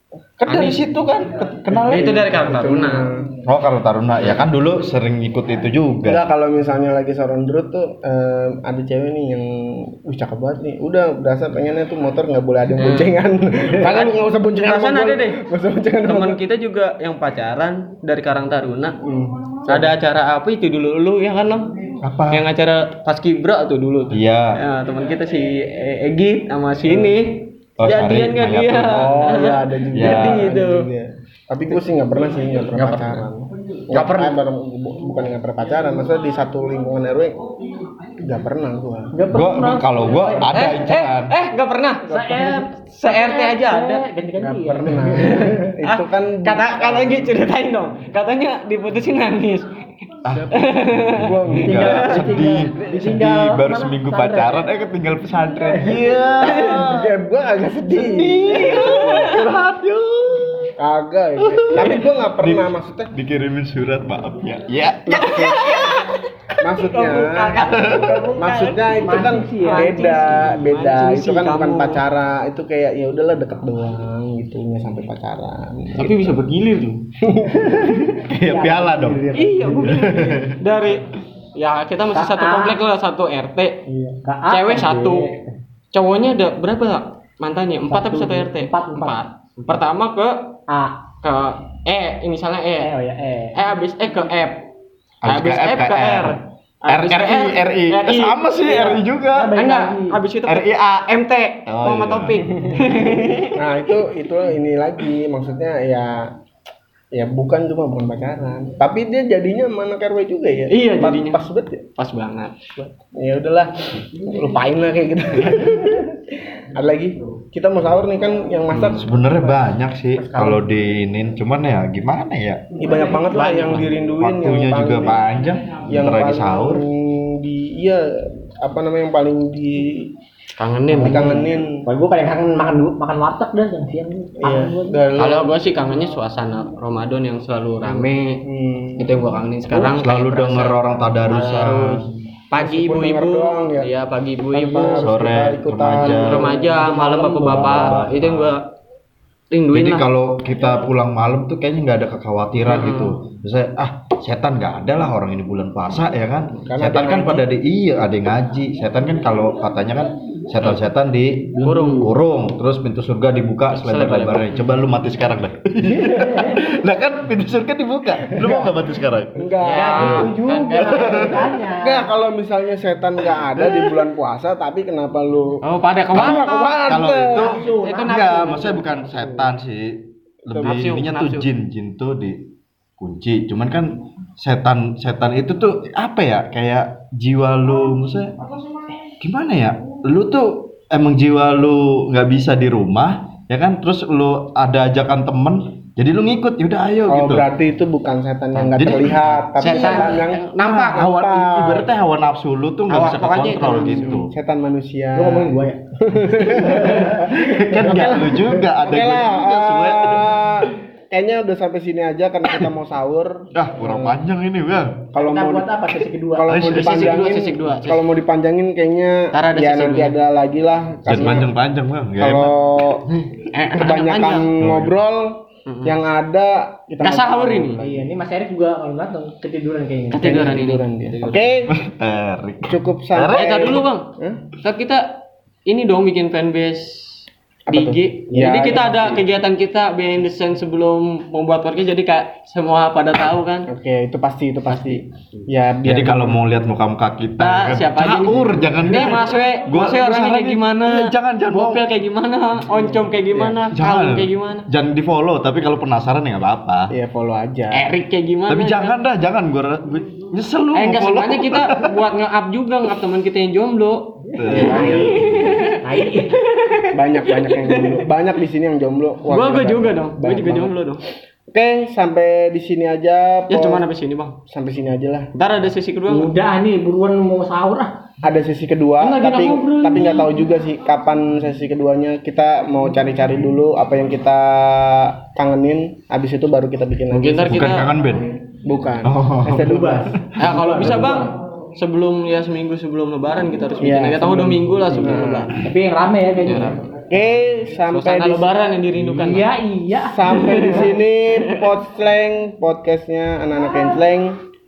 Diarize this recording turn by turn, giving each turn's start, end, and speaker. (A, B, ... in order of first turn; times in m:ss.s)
0:00.4-0:02.2 A
0:00.4-0:00.8 B
0:01.7-0:03.1 B
0:02.1-0:03.3 C
0:03.4-0:06.2 A
0:06.0-0:16.4 C
0:12.8-0:13.2 B
0:13.8-0:15.4 B
0:16.0-0:19.0 B
0:19.0-0:19.9 C
0:19.6-0:30.9 B
0:22.0-0:22.4 A
0:24.1-0:24.6 A
0:27.8-0:29.1 A
0:28.9-0:37.4 C
0:29.9-0:30.5 A
0:32.7-0:33.3 B
0:33.9-0:34.4 B
0:38.2-0:39.1 C
0:39.1-0:40.7 D
0:39.3-0:41.4 A
0:40.5-0:44.0 B
0:42.1-0:45.4 D
0:44.4-0:47.3 C
0:45.0-0:49.7 B
0:50.2-0:57.1 A
0:50.3-0:52.4 C
0:50.5-0:51.3 B
0:51.6-0:54.7 D
0:55.9-0:59.4 C
0:56.4-0:56.9 B
0:57.9-1:00.7 A
0:58.4-0:59.5 B
1:00.8-1:03.1 C
1:01.4-1:06.2 A
1:05.0-1:05.6 C
1:05.4-1:06.1 B
1:06.6-1:16.4 C
1:06.7-1:12.0 B
1:07.5-1:08.3 A
1:09.0-1:10.4 D
1:16.0-1:17.0 B
1:17.2-1:18.2 C
1:18.2-1:20.6 A
1:18.4-1:20.1 D
1:19.3-1:23.8 B
1:22.1-1:22.8 D
1:23.9-1:25.5 D
1:24.5-1:25.3 B
1:25.9-1:30.5 B
1:27.9-1:29.2 D
1:30.7-1:31.0 D
1:31.2-1:32.9 B
1:32.8-1:33.6 D
1:33.5-1:34.6 B
1:35.2-1:39.6 A
1:35.2-1:39.0 B
1:39.3-1:40.2 D
1:39.5-1:43.6 B
1:40.4-1:40.7 A
1:41.7-1:42.5 A
1:43.5-1:46.3 C
1:47.1-1:51.8 C
1:50.7-1:51.4 B
1:52.0-1:52.6 B
1:52.8-1:59.6 C
1:58.7-1:59.1 B
1:58.9-2:02.7 A
2:00.2-2:00.6 C
2:02.8-2:05.2 C
2:02.9-2:03.8 D
2:04.2-2:06.8 A
2:05.9-2:10.1 C
2:10.6-2:11.4 B
2:10.9-2:11.8 C
2:11.0-2:15.0 D
2:14.4-2:15.5 C
2:15.2-2:18.4 B
2:17.8-2:19.1 C
2:19.0-2:25.1 B
2:19.7-2:22.0 A
2:22.5-2:23.9 C
2:24.5-2:28.0 C
2:25.0-2:26.4 A
2:26.0-2:28.6 B
2:27.4-2:28.6 A
2:29.5-2:30.0 B
2:29.7-2:50.3 A
2:32.6-2:33.2 B
2:36.6-2:37.4 C
2:41.6-2:42.1 B
2:43.7-2:44.7 B
2:45.8-2:46.6 D
2:48.4-2:48.7 C
2:49.4-2:50.3 C
2:49.6-2:51.4 B
2:49.7-2:52.1 D
2:50.8-2:51.2 A
2:50.9-2:55.6 C
2:55.6-2:56.8 B
2:56.1-2:57.5 C
2:56.1-3:02.4 A
2:57.3-2:59.5 D
2:57.7-2:58.8 B
3:00.5-3:00.8 C
3:00.6-3:01.4 B
3:03.0-3:08.4 A
3:09.2-3:17.4 A
3:17.1-3:21.9 C
3:18.5-3:24.3 A
3:19.6-3:21.1 B
3:22.9-3:24.2 B
3:23.6-3:27.4 C
3:25.1-3:25.8 D
3:26.4-3:28.6 D
3:26.5-3:30.3 A
3:28.7-3:34.2 C
3:33.5-3:35.1 A
3:35.1-3:35.8 C
3:35.2-3:36.7 D
3:36.3-3:41.5 C
3:36.5-3:37.3 A
3:36.6-3:38.1 B
3:39.3-3:40.2 B
3:41.0-3:42.6 A
3:42.2-3:43.0 C
3:43.4-3:44.6 B
3:43.8-3:48.0 C
3:44.6-3:44.9 A
3:45.7-3:46.0 B
3:47.0-3:47.8 B
3:47.8-3:50.5 D
3:50.1-3:51.5 B
3:50.2-3:51.8 C
3:51.7-3:53.7 A
3:52.7-3:54.4 C
3:53.2-3:54.1 B
3:54.6-3:55.1 B
3:55.7-3:57.2 B
3:57.7-3:59.2 C
3:57.7-4:03.7 B
4:03.7-4:06.4 C
4:04.7-4:05.4 B
4:05.8-4:11.8 A
4:07.4-4:14.6 B
4:13.3-4:13.6 C
4:13.7-4:16.9 A
4:16.9-4:17.8 C
4:17.7-4:19.0 B
4:18.5-4:21.9 A
4:20.7-4:28.1 B
4:24.4-4:25.6 A
4:24.5-4:25.3 D
4:24.5-4:25.1 C
4:25.8-4:26.4 D
4:26.9-4:30.7 C
4:29.3-4:31.0 B
4:31.5-4:33.8 C
4:33.5-4:34.4 B
4:34.5-4:35.3 C
4:35.3-4:36.3 B
4:36.1-4:37.9 D
4:38.2-4:47.8 C
4:39.0-4:40.3 B
4:47.1-4:47.9 B
4:47.4-4:48.3 A
4:48.6-4:50.2 C
4:49.0-4:49.8 A
4:49.5-4:51.3 D
4:50.4-4:55.5 B
4:53.8-4:55.5 C
4:55.6-4:56.8 D
4:56.4-4:56.8 B
4:57.1-4:58.5 C
4:57.9-4:59.5 B
4:59.2-5:00.6 D
5:00.0-5:04.4 C
5:00.2-5:01.7 B